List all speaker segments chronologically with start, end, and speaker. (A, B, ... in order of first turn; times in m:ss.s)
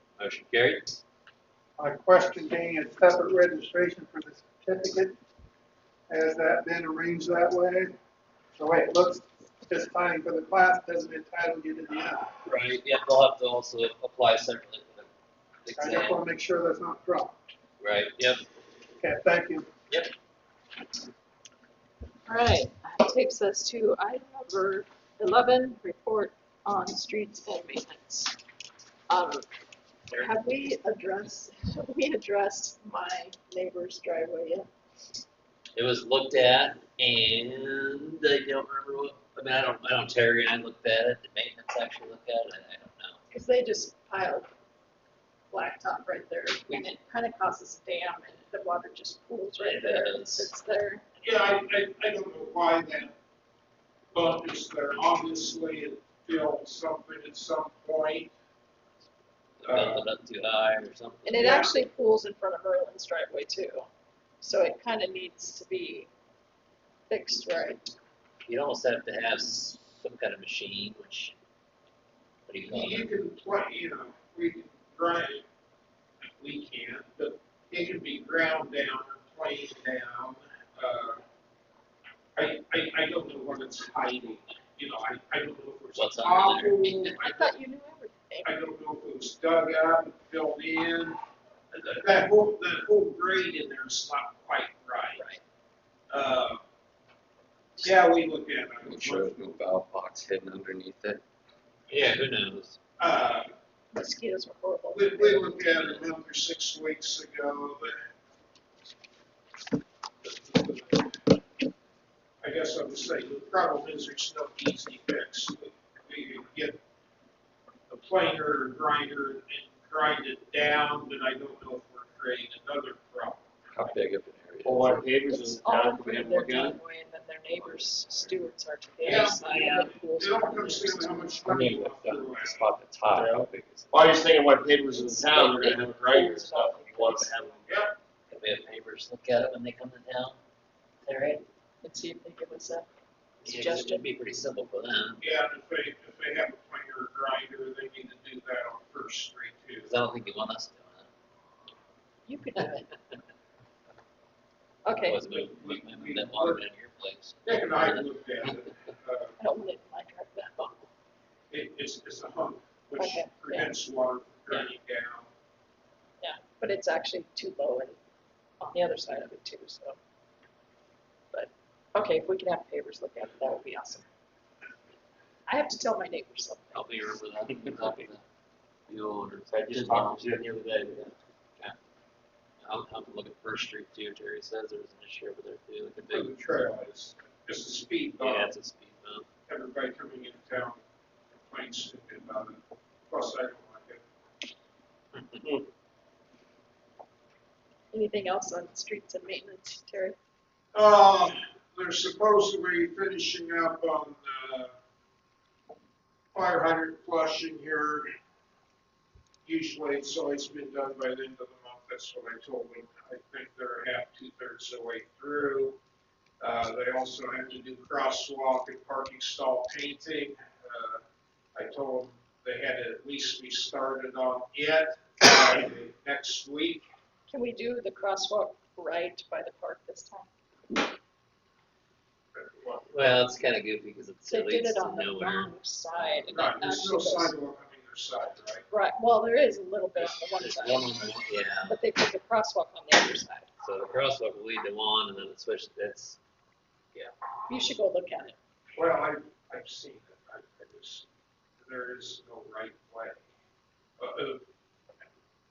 0:00.2-0:01.0 A
0:01.8-0:05.2 B
0:06.1-0:08.0 B
0:08.6-0:12.3 B
0:12.4-0:15.1 A
0:15.6-0:16.2 A
0:15.7-0:17.4 B
0:17.8-0:18.4 A
0:19.0-0:19.7 B
0:22.2-0:28.4 C
0:29.1-0:29.5 C
0:30.1-0:34.7 C
0:35.7-0:43.2 A
0:43.3-0:44.5 C
0:45.5-0:51.0 C
0:49.6-0:50.5 A
0:51.2-0:53.1 D
0:54.1-0:58.3 D
0:59.6-1:01.4 A
0:59.6-1:00.0 D
1:01.2-1:03.9 C
1:01.4-1:01.8 D
1:04.4-1:06.1 C
1:07.1-1:07.9 C
1:08.4-1:11.3 A
1:12.5-1:13.1 A
1:12.7-1:15.4 D
1:16.4-1:21.2 D
1:22.4-1:27.5 D
1:25.9-1:27.2 A
1:27.0-1:28.5 C
1:28.4-1:31.2 D
1:31.7-1:35.2 D
1:35.2-1:35.4 C
1:36.1-1:36.6 D
1:37.8-1:39.3 D
1:38.8-1:41.2 E
1:41.9-1:42.8 A
1:43.0-1:43.5 D
1:43.9-1:46.0 C
1:44.9-1:48.0 D
1:50.2-1:51.3 D
1:52.4-1:56.8 D
1:57.9-2:03.4 D
2:03.7-2:05.0 E
2:04.6-2:06.8 F
2:05.3-2:11.3 C
2:09.0-2:12.7 D
2:11.4-2:14.1 E
2:13.1-2:17.8 F
2:14.9-2:17.3 C
2:15.3-2:15.8 A
2:17.6-2:17.9 D
2:18.3-2:20.4 A
2:21.0-2:21.4 A
2:21.8-2:22.9 C
2:23.4-2:25.2 A
2:23.4-2:24.0 C
2:25.2-2:29.9 D
2:29.8-2:31.1 A
2:32.2-2:32.9 C
2:34.8-2:35.2 C
2:35.0-2:38.5 A
2:35.3-2:36.6 D
2:37.4-2:39.4 D
2:39.4-2:40.8 C
2:41.5-2:45.3 D
2:43.0-2:43.8 C
2:46.2-2:48.0 C
2:48.6-2:50.0 C
2:51.3-2:54.0 C
2:55.5-2:56.9 C
2:56.7-2:58.2 A
2:58.9-3:00.3 A
2:59.5-3:01.1 F
3:02.6-3:06.3 A
3:06.1-3:08.5 D
3:08.2-3:09.2 A
3:09.5-3:10.8 D
3:11.4-3:14.0 D
3:17.9-3:20.2 C
3:20.7-3:24.7 D
3:26.3-3:28.1 D
3:29.4-3:35.8 D
3:36.4-3:41.0 D
3:41.5-3:46.8 D
3:47.3-3:50.3 C
3:52.3-3:53.2 D
3:52.9-3:56.6 A
3:54.3-3:57.3 C
3:56.3-3:58.6 D
3:58.7-4:03.5 C
4:00.0-4:01.8 A
4:03.6-4:06.2 A
4:07.5-4:08.4 C
4:08.7-4:11.1 D
4:11.6-4:13.2 D
4:14.0-4:14.4 D